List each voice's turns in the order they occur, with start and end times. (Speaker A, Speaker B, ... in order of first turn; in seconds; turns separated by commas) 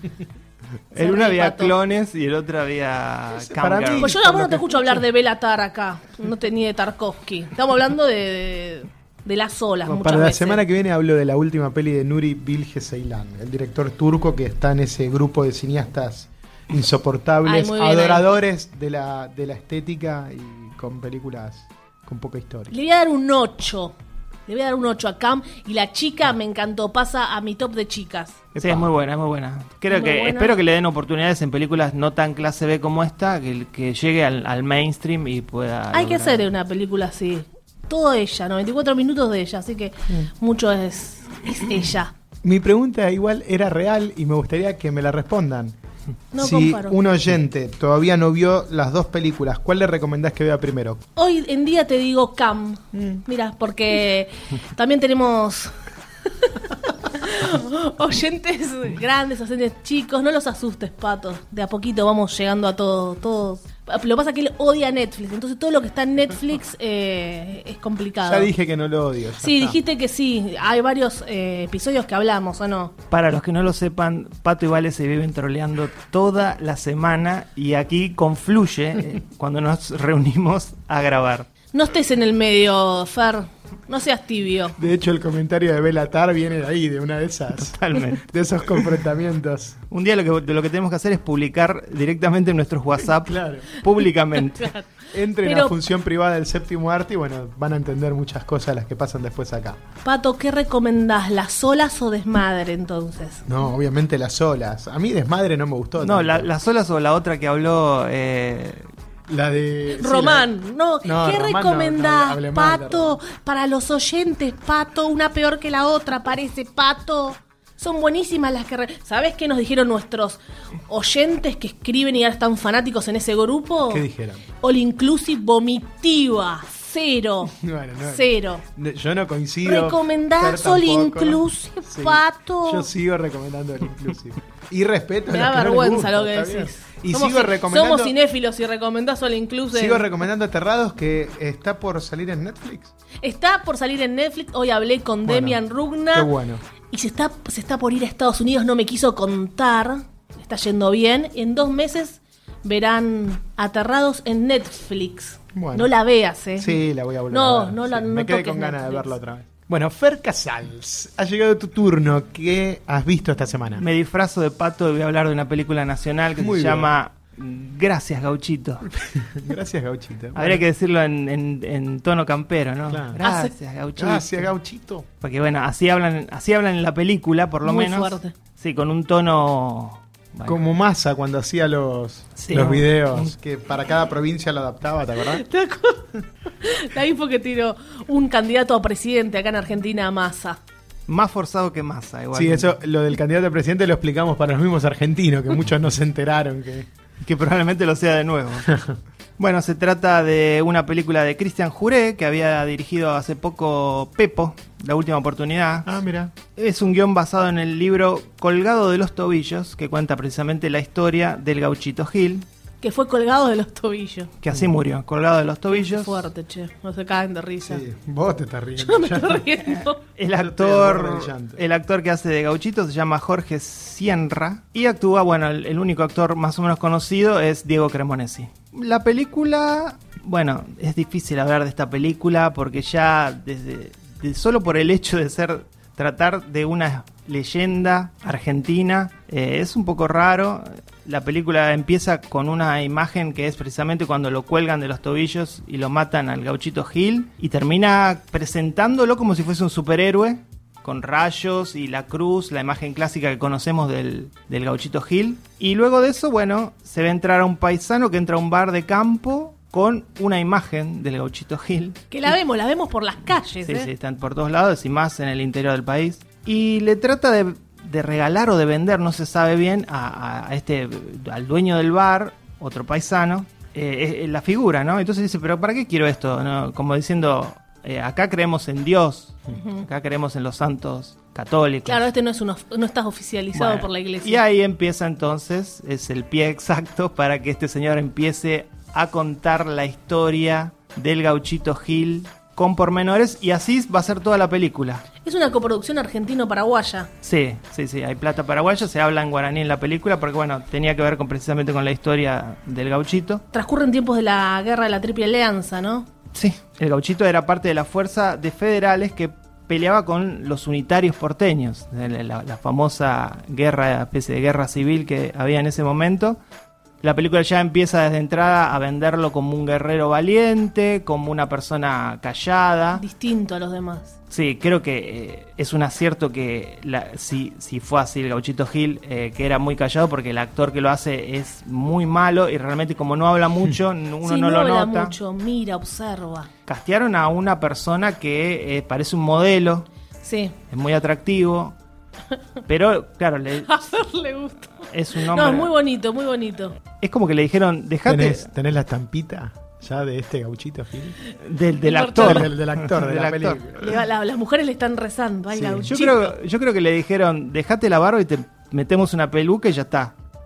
Speaker A: 0.9-1.8, Speaker B: 0.9-4.1, Speaker C: 3.4-5.0, Speaker A: 4.0-10.6, Speaker C: 9.8-22.7, Speaker A: 17.4-18.3, Speaker A: 22.7-24.0, Speaker A: 24.5-28.4, Speaker C: 28.5-28.9, Speaker B: 28.6-36.5, Speaker A: 29.9-30.6, Speaker A: 35.9-42.1, Speaker C: 42.4-45.8, Speaker A: 46.3-47.0, Speaker C: 46.4-51.0, Speaker A: 51.2-55.7, Speaker C: 52.9-53.2, Speaker A: 56.4-68.5, Speaker C: 68.2-69.8, Speaker A: 69.4-72.9, Speaker B: 73.1-81.5, Speaker A: 81.7-84.8, Speaker C: 84.8-89.8, Speaker B: 87.6-88.3, Speaker B: 89.9-94.7, Speaker C: 93.2-93.7, Speaker A: 94.5-94.9, Speaker C: 95.1-99.8, Speaker A: 95.4-95.8, Speaker A: 100.0-103.5, Speaker C: 103.5-106.5, Speaker B: 106.0-108.9, Speaker C: 109.3-110.5, Speaker A: 109.9-124.0, Speaker C: 111.0-113.2, Speaker C: 123.9-124.4, Speaker A: 124.6-128.7, Speaker C: 127.5-138.2, Speaker A: 129.7-132.9, Speaker A: 135.3-140.1, Speaker C: 139.7-142.9, Speaker A: 143.2-146.3, Speaker C: 145.2-145.6, Speaker C: 146.1-146.6, Speaker A: 146.9-156.8, Speaker C: 155.5-155.9, Speaker C: 156.6-163.8, Speaker A: 157.3-159.1, Speaker B: 163.8-168.9, Speaker C: 166.4-166.9, Speaker C: 168.9-170.6, Speaker B: 170.3-174.5, Speaker C: 172.9-173.2, Speaker A: 173.2-173.5, Speaker C: 174.0-175.1, Speaker B: 175.2-180.6, Speaker A: 177.7-178.3, Speaker C: 180.5-185.4, Speaker B: 182.4-183.3, Speaker A: 185.3-190.6, Speaker B: 191.1-192.7, Speaker C: 192.3-196.9, Speaker B: 197.2-198.7, Speaker C: 198.7-199.0, Speaker B: 199.4-212.5, Speaker C: 205.8-206.3, Speaker A: 212.8-214.3, Speaker B: 214.4-216.3, Speaker A: 215.7-217.8, Speaker C: 217.6-219.5, Speaker A: 218.8-220.0, Speaker B: 220.2-262.4, Speaker C: 220.4-221.6, Speaker A: 262.1-263.9, Speaker B: 263.6-282.1, Speaker A: 279.5-279.8, Speaker A: 281.9-284.4, Speaker B: 283.5-295.0, Speaker A: 295.2-297.1, Speaker B: 297.2-303.4, Speaker A: 303.5-306.1, Speaker B: 306.3-316.4, Speaker B: 317.0-323.0, Speaker A: 323.0-324.1, Speaker B: 324.3-335.1, Speaker A: 334.2-336.5, Speaker B: 336.7-339.9, Speaker A: 340.2-340.6, Speaker B: 340.7-341.8, Speaker B: 342.7-343.8, Speaker A: 343.6-346.8, Speaker B: 344.8-345.7, Speaker B: 347.0-348.5, Speaker C: 348.1-351.2, Speaker B: 351.4-353.7, Speaker A: 351.9-352.5, Speaker C: 352.2-353.9, Speaker A: 353.8-356.4, Speaker C: 355.5-355.9, Speaker B: 355.9-360.1